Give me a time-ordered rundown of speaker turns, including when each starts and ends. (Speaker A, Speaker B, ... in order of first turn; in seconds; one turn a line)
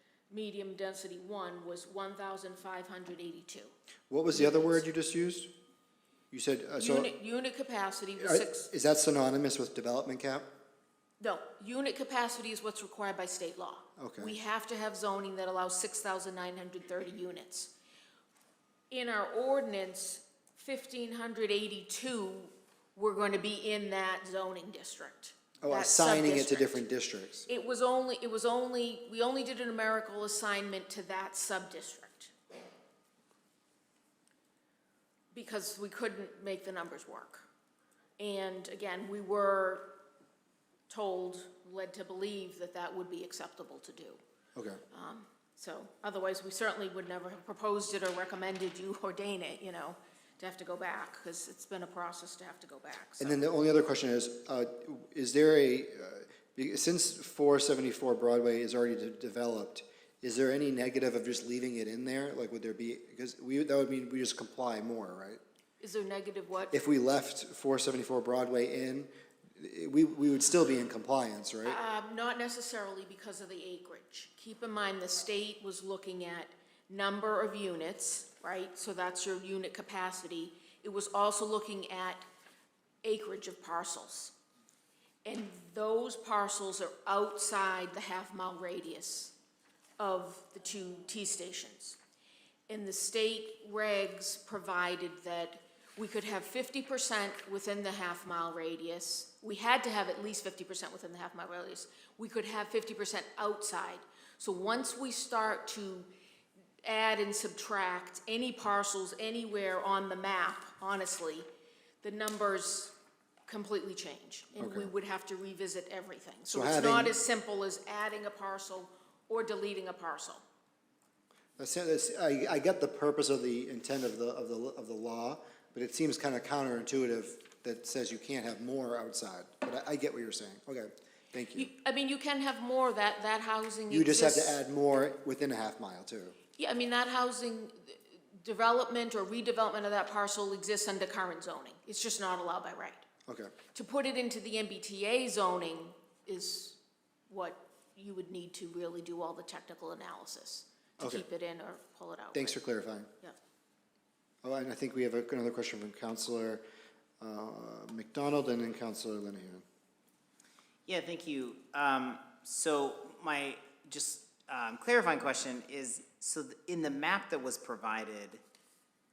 Speaker A: 0.3-3.7
Speaker B: 4.1-5.5
Speaker A: 4.3-4.8
Speaker B: 6.3-7.1
Speaker A: 6.8-8.7
Speaker B: 8.2-10.5
Speaker A: 11.2-17.7
Speaker B: 14.0-14.3
Speaker A: 18.9-26.8
Speaker B: 25.6-27.5
Speaker A: 27.5-32.3
Speaker A: 35.3-37.5
Speaker A: 38.2-40.0
Speaker A: 40.9-44.2
Speaker B: 44.6-44.8
Speaker A: 44.9-53.4
Speaker B: 53.2-65.4
Speaker A: 65.8-66.7
Speaker B: 66.7-71.8
Speaker A: 71.7-82.2
Speaker A: 83.0-84.3
Speaker A: 85.2-89.3
Speaker A: 90.0-92.0
Speaker A: 92.7-106.1
Speaker A: 106.8-111.5
Speaker A: 112.0-113.0
Speaker A: 113.5-120.4
Speaker B: 114.6-114.9
Speaker B: 116.5-117.2
Speaker B: 121.6-131.7
Speaker A: 131.6-134.6
Speaker B: 133.9-136.4
Speaker A: 136.6-143.1
Speaker B: 143.3-143.5
Speaker A: 143.7-152.6
Speaker B: 151.0-151.2
Speaker B: 152.3-153.1
Speaker B: 154.4-156.6
Speaker B: 157.2-159.6
Speaker C: 160.9-168.4